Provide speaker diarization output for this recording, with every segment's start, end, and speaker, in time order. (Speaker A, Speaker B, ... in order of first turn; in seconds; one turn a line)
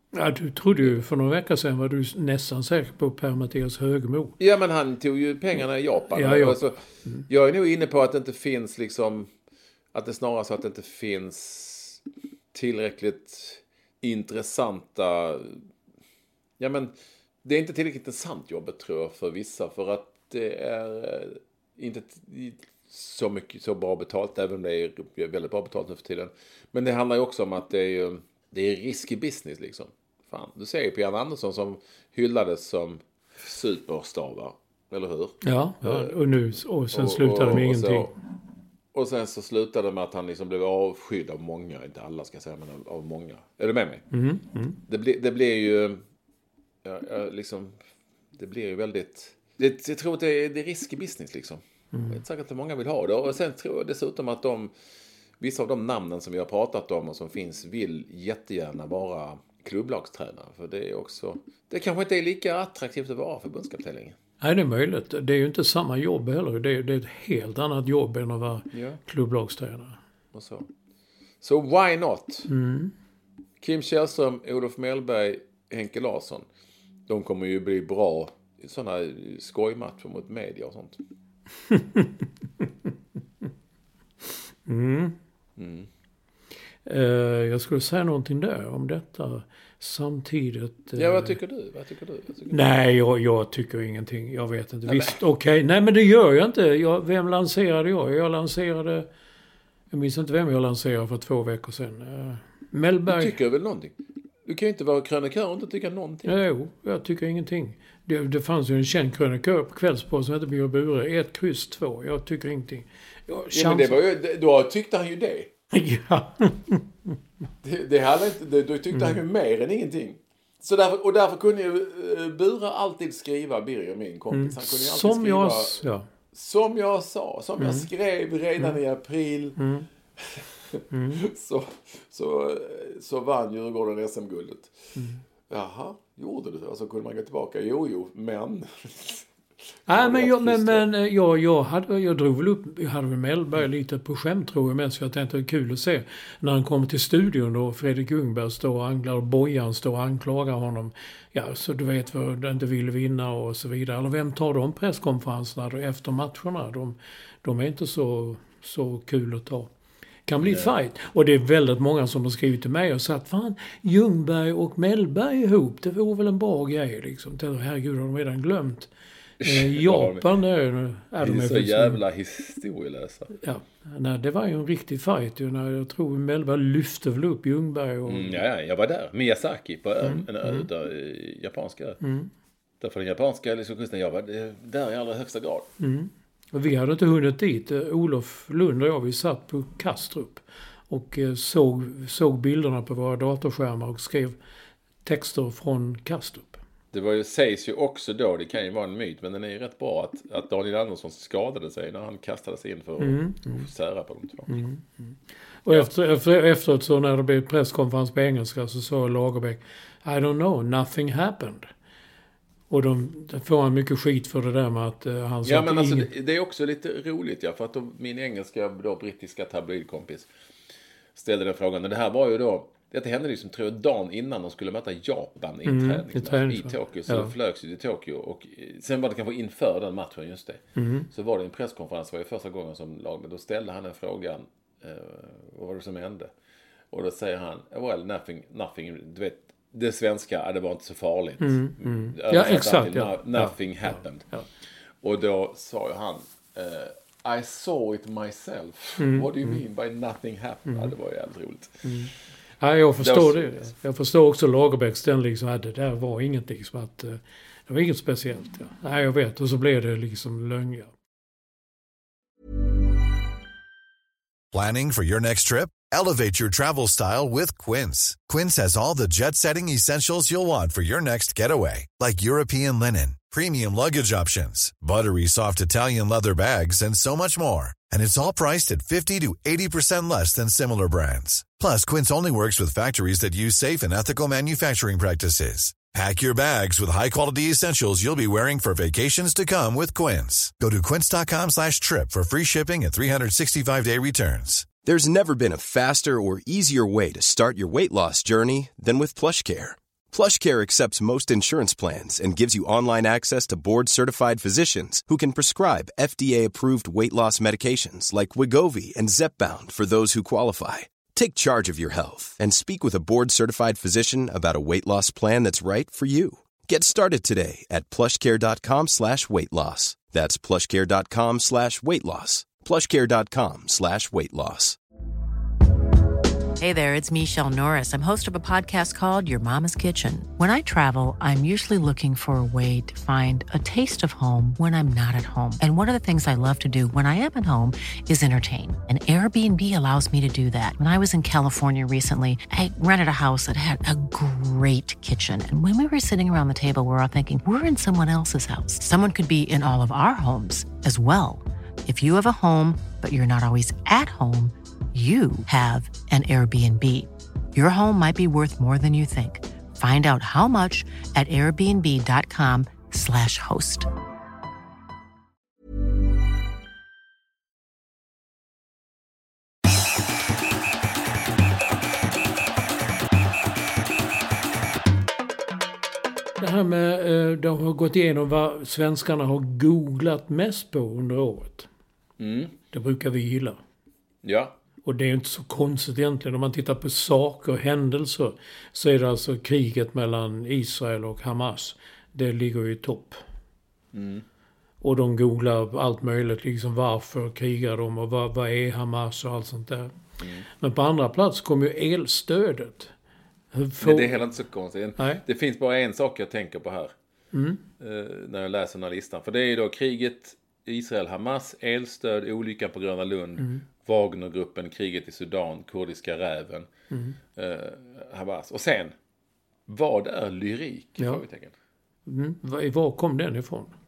Speaker A: 0.1-4.3
Speaker B: 4.4-9.3
Speaker A: 6.1-7.2
Speaker B: 9.9-15.6
Speaker B: 16.6-36.2
Speaker A: 35.4-38.1
Speaker B: 36.9-38.1
Speaker B: 38.9-44.0
Speaker A: 44.1-44.8
Speaker B: 44.8-46.0
Speaker B: 46.8-47.8
Speaker B: 48.3-54.7
Speaker A: 51.9-52.2
Speaker B: 55.4-64.2
Speaker A: 64.4-70.0
Speaker B: 68.7-69.0
Speaker B: 70.3-70.7
Speaker B: 71.4-72.5
Speaker A: 72.5-72.9
Speaker B: 73.6-76.5
Speaker B: 77.1-81.0
Speaker A: 81.7-82.7
Speaker A: 84.7-85.2
Speaker B: 85.6-85.9
Speaker A: 86.8-91.4
Speaker B: 91.0-92.6
Speaker A: 92.5-99.1
Speaker B: 94.9-95.2
Speaker A: 99.9-103.3
Speaker B: 103.1-103.9
Speaker B: 104.5-106.4
Speaker A: 106.2-114.0
Speaker B: 113.5-115.5
Speaker A: 115.7-117.2
Speaker B: 117.6-129.6
Speaker A: 118.9-119.2
Speaker A: 124.3-126.1
Speaker A: 127.6-127.9
Speaker A: 129.6-129.9
Speaker B: 130.2-134.8
Speaker A: 130.9-131.2
Speaker B: 135.5-139.3
Speaker A: 139.9-159.7
Speaker B: 139.9-140.9
Speaker A: 160.3-168.9
Speaker B: 160.4-160.7
Speaker B: 169.4-170.3
Speaker A: 169.4-172.0
Speaker B: 171.2-173.3
Speaker A: 173.4-178.4
Speaker B: 178.1-182.0
Speaker A: 180.0-180.7
Speaker A: 182.0-182.3
Speaker B: 182.8-185.7
Speaker A: 185.8-194.4
Speaker A: 195.0-196.6
Speaker B: 196.9-204.6
Speaker A: 203.0-203.7
Speaker A: 204.5-211.7
Speaker A: 212.7-216.1
Speaker B: 215.4-220.3
Speaker B: 221.2-236.3
Speaker A: 225.7-227.3
Speaker A: 230.8-231.1
Speaker B: 236.9-244.3
Speaker A: 241.4-244.5
Speaker B: 245.0-252.0
Speaker A: 249.0-249.6
Speaker A: 250.7-250.9
Speaker A: 251.8-260.9
Speaker B: 253.0-253.7
Speaker C: 264.5-294.7
Speaker D: 294.8-324.8
Speaker E: 326.6-363.9
Speaker A: 376.4-381.7
Speaker B: 382.2-382.6
Speaker A: 382.7-383.6
Speaker B: 384.2-384.6
Speaker A: 384.8-393.2
Speaker B: 393.9-394.2
Speaker A: 394.8-399.9
Speaker B: 400.2-400.5
Speaker A: 400.5-402.9
Speaker A: 403.5-404.2
Speaker B: 403.8-406.9
Speaker A: 405.0-405.2
Speaker A: 407.3-407.6
Speaker B: 407.8-416.7
Speaker A: 413.4-413.6
Speaker A: 416.9-417.2
Speaker B: 417.3-419.0
Speaker B: 419.7-421.6
Speaker A: 421.0-421.2
Speaker A: 422.1-423.8